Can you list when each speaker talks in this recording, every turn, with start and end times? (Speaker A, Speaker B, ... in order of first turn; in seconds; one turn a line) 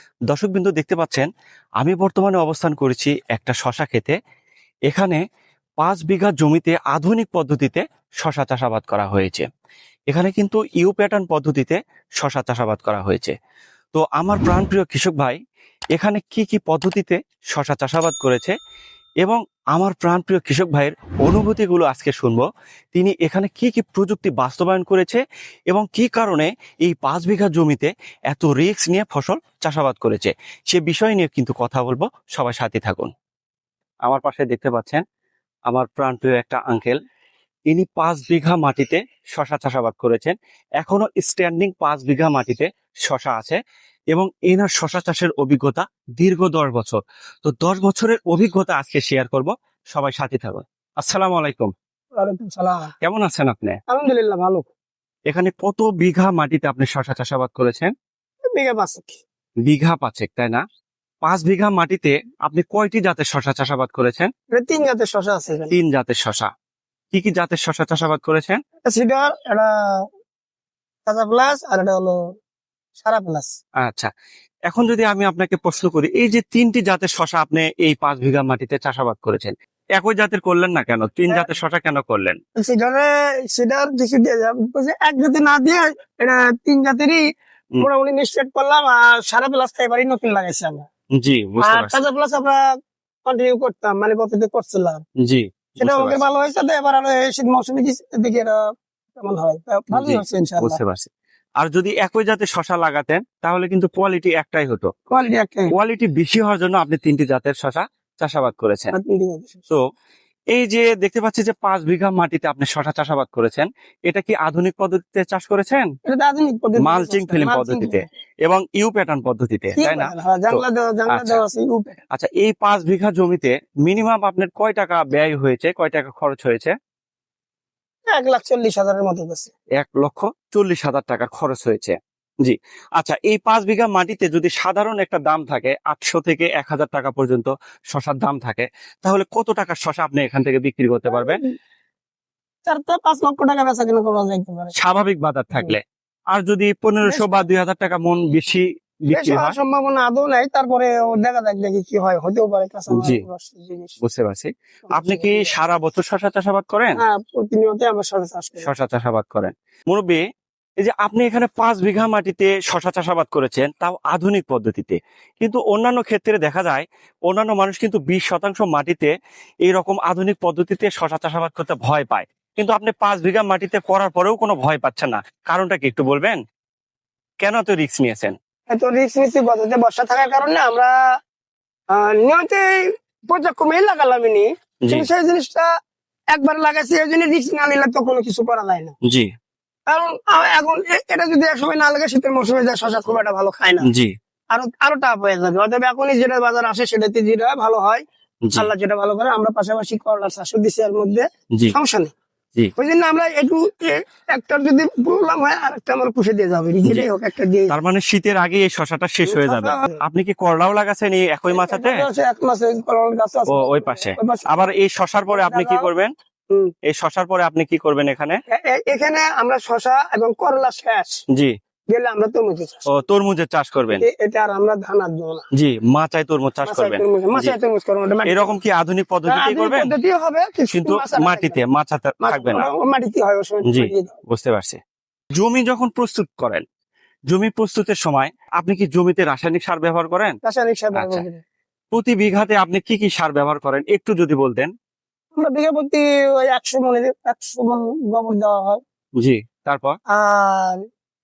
Speaker A: 0.3-1.3
Speaker A: 1.8-4.2
Speaker A: 4.9-5.2
Speaker A: 5.8-9.4
Speaker A: 10.1-13.3
Speaker A: 13.9-15.4
Speaker A: 15.9-18.5
Speaker A: 19.2-33.1
Speaker A: 34.1-35.0
Speaker A: 35.7-37.0
Speaker A: 37.7-43.6
Speaker A: 44.1-51.7
Speaker B: 52.1-52.9
Speaker A: 53.0-53.8
Speaker B: 53.9-54.6
Speaker A: 55.3-57.9
Speaker B: 58.5-59.2
Speaker A: 59.6-60.6
Speaker A: 61.2-64.3
Speaker B: 64.5-65.7
Speaker A: 65.7-66.5
Speaker A: 67.1-68.6
Speaker B: 68.8-70.0
Speaker B: 71.0-72.2
Speaker B: 73.0-73.5
Speaker A: 73.8-74.1
Speaker A: 74.7-82.4
Speaker B: 82.5-87.2
Speaker B: 87.8-90.9
Speaker A: 91.2-92.0
Speaker B: 91.6-92.7
Speaker B: 93.2-95.0
Speaker A: 95.2-96.2
Speaker B: 95.8-98.6
Speaker B: 99.2-100.8
Speaker A: 99.9-101.1
Speaker A: 101.6-104.9
Speaker B: 105.1-105.7
Speaker A: 105.7-108.9
Speaker B: 108.9-109.6
Speaker A: 110.5-115.9
Speaker B: 116.0-118.0
Speaker A: 116.8-121.4
Speaker B: 119.8-122.0
Speaker A: 122.1-126.7
Speaker B: 128.1-129.5
Speaker A: 129.8-141.4
Speaker B: 141.1-141.5
Speaker B: 142.7-144.7
Speaker A: 144.8-145.8
Speaker A: 146.3-149.6
Speaker B: 147.0-147.4
Speaker B: 149.1-154.0
Speaker A: 152.9-153.2
Speaker A: 154.0-157.0
Speaker B: 154.9-155.5
Speaker B: 157.0-158.7
Speaker A: 158.6-160.2
Speaker A: 160.8-169.1
Speaker A: 169.7-176.4
Speaker A: 177.4-178.3
Speaker B: 178.7-180.9
Speaker B: 181.9-185.7
Speaker B: 186.3-188.9
Speaker B: 189.9-193.9
Speaker A: 193.8-194.1
Speaker B: 194.5-198.0
Speaker A: 198.4-198.7
Speaker B: 198.6-202.1
Speaker B: 202.8-207.7
Speaker A: 207.7-212.0
Speaker B: 209.2-210.0
Speaker B: 211.5-214.5
Speaker A: 213.5-216.1
Speaker B: 215.3-215.9
Speaker A: 216.9-218.4
Speaker B: 218.5-221.2
Speaker B: 221.9-223.0
Speaker A: 222.9-224.0
Speaker B: 223.9-225.4
Speaker A: 225.5-227.5
Speaker B: 226.7-228.5
Speaker A: 228.2-229.9
Speaker B: 229.2-231.6
Speaker A: 230.7-232.7
Speaker B: 232.2-234.1
Speaker A: 233.7-234.8
Speaker A: 235.4-236.6
Speaker A: 237.3-240.4
Speaker B: 240.4-241.4
Speaker A: 240.9-241.2
Speaker A: 241.9-244.7
Speaker B: 245.3-248.8
Speaker A: 249.2-250.0
Speaker B: 250.1-250.8